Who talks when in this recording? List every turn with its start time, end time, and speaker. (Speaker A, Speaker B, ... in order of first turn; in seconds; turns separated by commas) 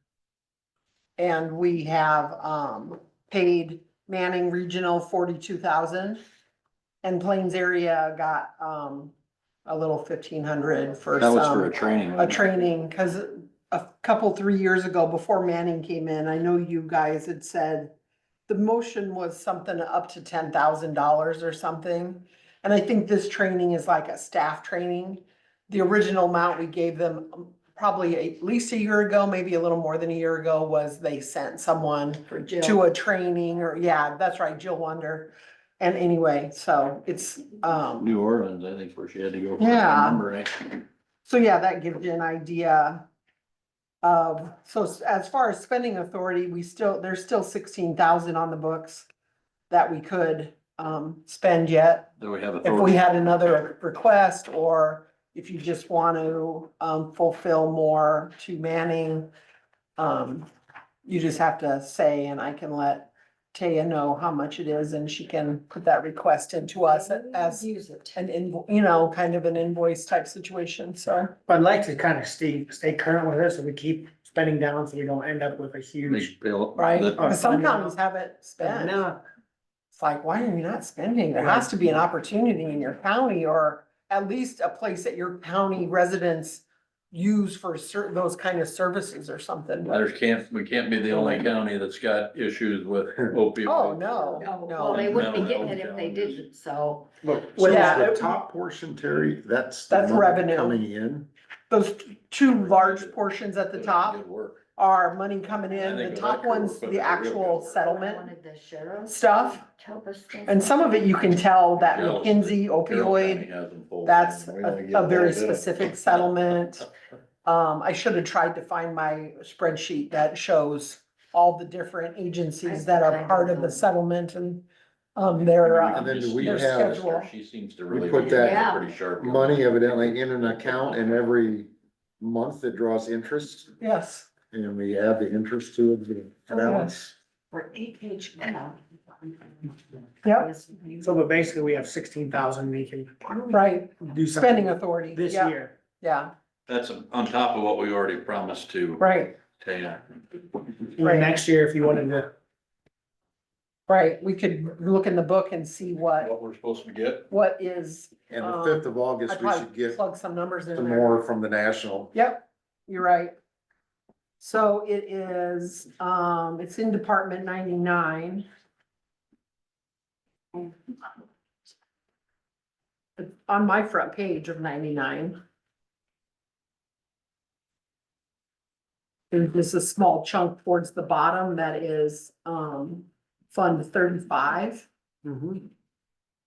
Speaker A: 1.2-6.2, Speaker A: 7.0-9.1, Speaker A: 9.7-17.9, Speaker B: 11.2-12.4, Speaker A: 18.5-38.1, Speaker C: 32.3-32.8, Speaker B: 38.0-40.5, Speaker A: 39.6-40.3, Speaker A: 41.3-43.0, Speaker A: 44.0-49.1, Speaker A: 49.7-52.1, Speaker B: 52.2-53.0, Speaker A: 52.6-59.3, Speaker A: 60.0-60.5, Speaker A: 61.0-71.3, Speaker C: 66.7-68.2, Speaker D: 71.5-76.3, Speaker B: 76.0-77.4, Speaker A: 76.8-79.1, Speaker D: 77.2-77.9, Speaker D: 78.6-79.2, Speaker A: 79.9-90.0, Speaker D: 81.4-82.0, Speaker B: 89.9-96.5, Speaker A: 93.6-95.4, Speaker C: 94.4-97.1, Speaker D: 97.2-98.0, Speaker E: 97.5-101.3, Speaker A: 97.6-98.3, Speaker A: 99.9-100.8, Speaker A: 101.7-104.2, Speaker B: 102.5-103.2, Speaker B: 103.7-104.6, Speaker A: 104.8-108.3, Speaker B: 105.7-107.8, Speaker C: 107.7-111.1, Speaker A: 109.1-109.6, Speaker A: 110.5-113.5, Speaker B: 111.8-115.8, Speaker A: 114.0-116.9, Speaker A: 117.5-127.3, Speaker C: 122.6-123.8, Speaker B: 125.5-130.1, Speaker E: 125.9-127.0, Speaker E: 127.9-133.7, Speaker C: 128.2-128.9, Speaker A: 133.8-134.3, Speaker E: 134.5-137.1, Speaker A: 136.6-136.9, Speaker C: 137.5-139.7, Speaker A: 140.2-140.5, Speaker C: 140.3-141.1, Speaker D: 141.0-145.8, Speaker A: 143.5-146.3, Speaker B: 146.7-149.0, Speaker A: 149.0-149.4, Speaker B: 149.6-150.0, Speaker D: 151.0-152.3, Speaker A: 151.0-151.4, Speaker A: 153.9-156.3, Speaker B: 156.2-157.3, Speaker A: 157.3-161.1, Speaker E: 158.3-160.0, Speaker E: 160.7-162.1, Speaker A: 162.1-163.3, Speaker A: 164.4-168.5, Speaker A: 173.2-175.4, Speaker A: 179.3-184.9, Speaker D: 185.2-185.6